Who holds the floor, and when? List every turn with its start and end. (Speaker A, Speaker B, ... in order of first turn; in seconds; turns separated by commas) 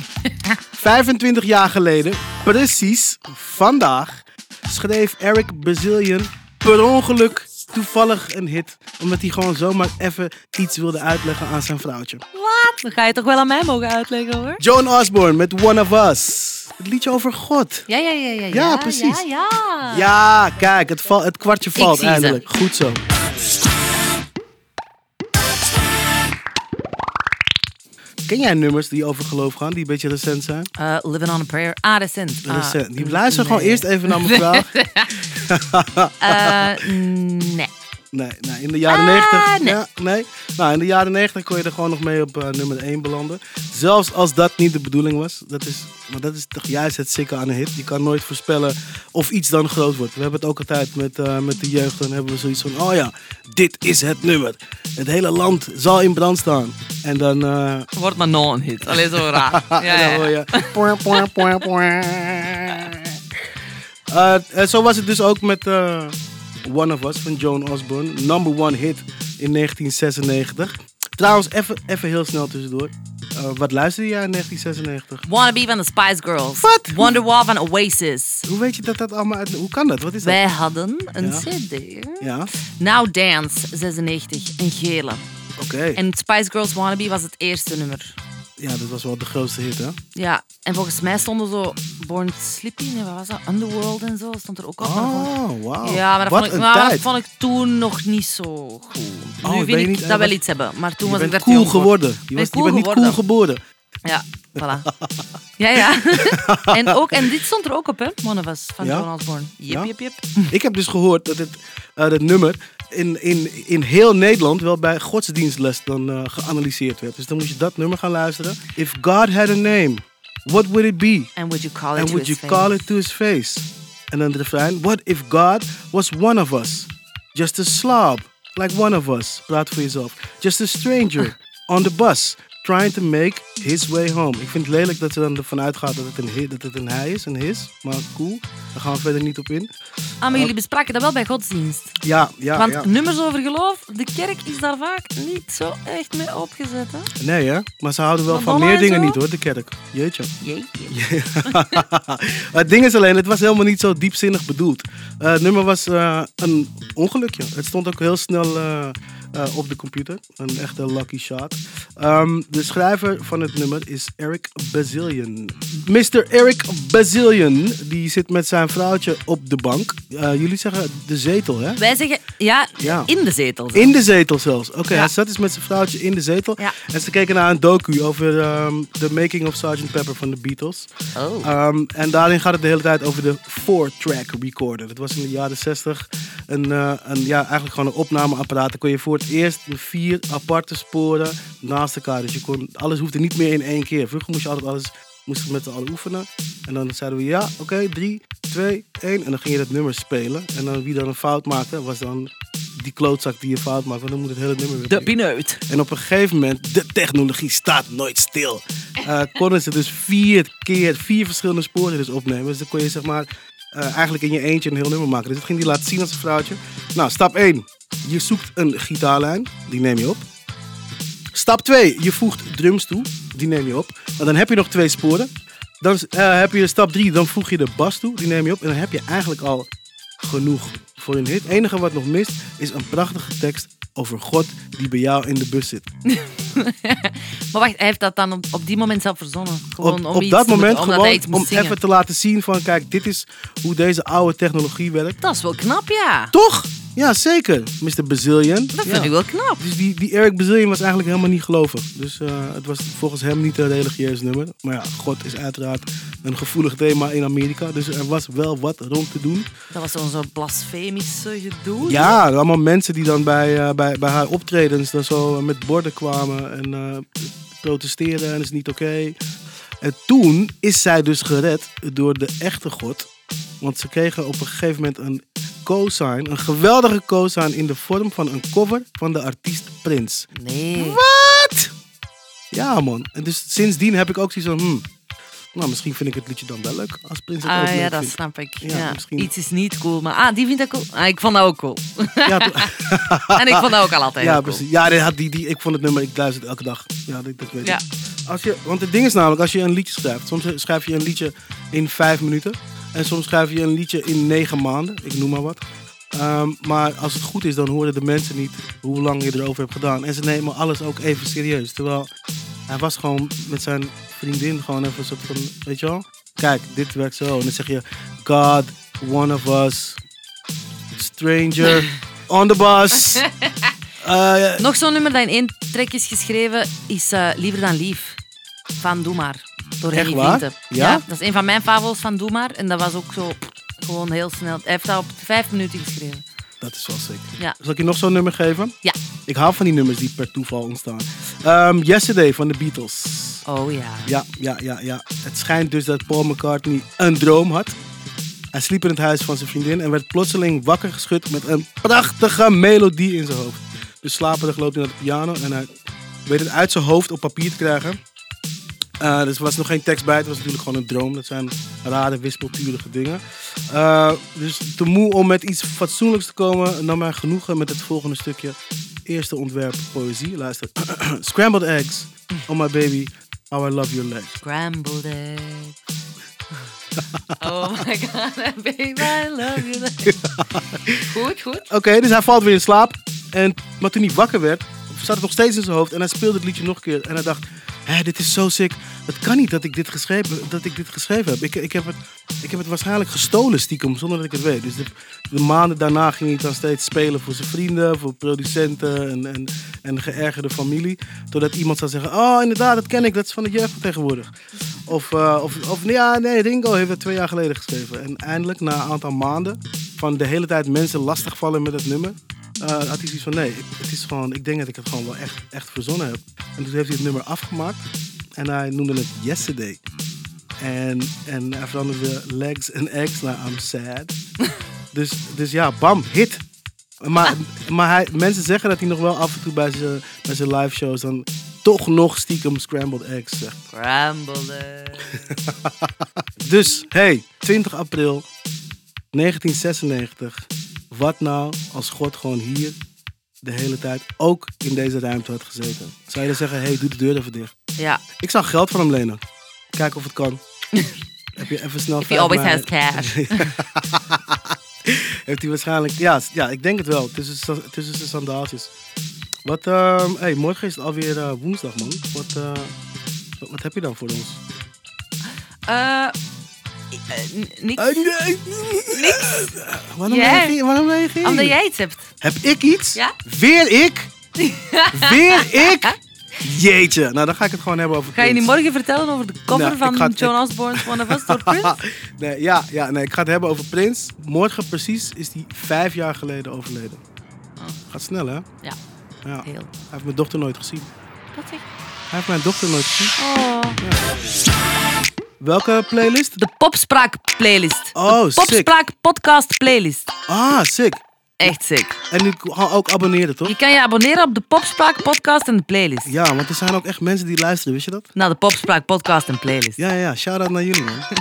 Speaker A: 0.2-0.6, Speaker B: 0.7-12.2, Speaker A: 12.3-14.6, Speaker B: 14.6-17.9, Speaker A: 17.9-20.1, Speaker B: 18.5-19.2, Speaker B: 19.9-23.0, Speaker A: 21.8-22.4, Speaker B: 28.3-30.7, Speaker A: 30.8-35.2, Speaker B: 32.5-34.7, Speaker B: 35.4-36.6, Speaker A: 36.2-37.7, Speaker B: 38.1-57.9, Speaker A: 38.9-39.8, Speaker A: 58.0-61.5, Speaker B: 58.9-63.1, Speaker B: 64.1-75.3, Speaker A: 75.2-78.5, Speaker B: 76.6-77.2, Speaker B: 78.5-80.4, Speaker A: 80.2-85.2, Speaker B: 81.2-81.5, Speaker B: 82.2-82.5, Speaker B: 85.6-86.0, Speaker A: 86.0-88.2, Speaker B: 88.6-90.0, Speaker A: 90.2-103.2, Speaker B: 94.8-97.1, Speaker B: 99.4-100.4, Speaker B: 101.0-103.6, Speaker A: 104.0-104.9, Speaker B: 104.9-105.2, Speaker A: 105.6-110.5, Speaker B: 106.3-106.9, Speaker B: 108.8-109.1, Speaker B: 110.5-121.3, Speaker A: 121.4-122.9, Speaker B: 122.0-139.7, Speaker A: 140.2-142.0, Speaker B: 142.0-142.9, Speaker A: 142.5-147.1, Speaker B: 147.2-150.3, Speaker A: 148.3-149.2, Speaker A: 150.4-151.8, Speaker B: 150.9-171.8, Speaker A: 171.8-174.0, Speaker B: 172.8-173.1, Speaker B: 173.7-180.9, Speaker A: 181.2-181.5, Speaker B: 181.4-205.1, Speaker A: 204.7-205.6, Speaker B: 205.7-220.2, Speaker B: 221.3-229.7, Speaker B: 230.2-235.9, Speaker A: 236.1-241.8, Speaker B: 239.8-245.2, Speaker A: 245.2-246.3, Speaker B: 246.3-259.5, Speaker A: 248.8-249.6, Speaker A: 259.7-262.2, Speaker B: 261.8-269.2, Speaker B: 269.8-273.1, Speaker B: 273.6-281.7, Speaker A: 280.4-281.0, Speaker B: 282.5-284.8, Speaker B: 285.5-289.3, Speaker A: 287.4-292.7, Speaker B: 292.3-293.6, Speaker A: 293.3-294.7, Speaker B: 294.2-312.1, Speaker B: 312.7-320.0, Speaker B: 321.0-323.2, Speaker A: 323.1-323.5, Speaker B: 324.0-324.6, Speaker A: 324.6-328.2, Speaker A: 328.8-336.2, Speaker B: 329.9-331.0, Speaker B: 336.6-338.7, Speaker B: 339.3-343.4, Speaker A: 343.5-344.2, Speaker B: 344.1-347.8, Speaker B: 348.5-355.7, Speaker B: 356.3-358.0, Speaker B: 359.0-374.4, Speaker A: 374.4-375.8, Speaker A: 377.4-380.2, Speaker B: 380.0-381.1, Speaker A: 381.1-381.7, Speaker B: 381.7-404.3, Speaker B: 404.9-417.9, Speaker B: 418.4-419.8, Speaker B: 420.6-424.1, Speaker B: 424.9-426.4, Speaker B: 427.0-433.6, Speaker A: 433.7-435.2, Speaker B: 435.6-435.9, Speaker B: 436.4-438.3, Speaker B: 439.1-442.8, Speaker B: 443.4-447.5, Speaker A: 447.8-448.0, Speaker B: 448.2-449.2, Speaker B: 449.7-450.4, Speaker B: 451.4-458.7, Speaker A: 452.0-453.5, Speaker B: 459.4-462.7, Speaker B: 463.4-464.4, Speaker A: 465.7-466.1, Speaker A: 466.9-468.1, Speaker B: 467.8-471.6, Speaker A: 468.9-469.5, Speaker A: 470.1-470.6, Speaker A: 471.2-472.1, Speaker B: 472.2-474.1, Speaker A: 474.4-475.9, Speaker B: 474.9-478.5, Speaker A: 478.1-481.8, Speaker B: 479.5-487.0, Speaker B: 487.9-488.4, Speaker B: 489.2-490.9, Speaker A: 489.4-489.7, Speaker A: 491.3-491.6, Speaker B: 492.1-493.2, Speaker A: 493.2-493.8, Speaker B: 493.8-494.1, Speaker B: 495.4-496.4, Speaker A: 496.4-500.1, Speaker B: 497.9-498.7, Speaker B: 500.3-501.6, Speaker A: 501.4-502.0, Speaker B: 502.1-503.6, Speaker A: 503.4-506.1, Speaker B: 506.1-508.1, Speaker A: 508.1-509.8, Speaker B: 509.8-511.1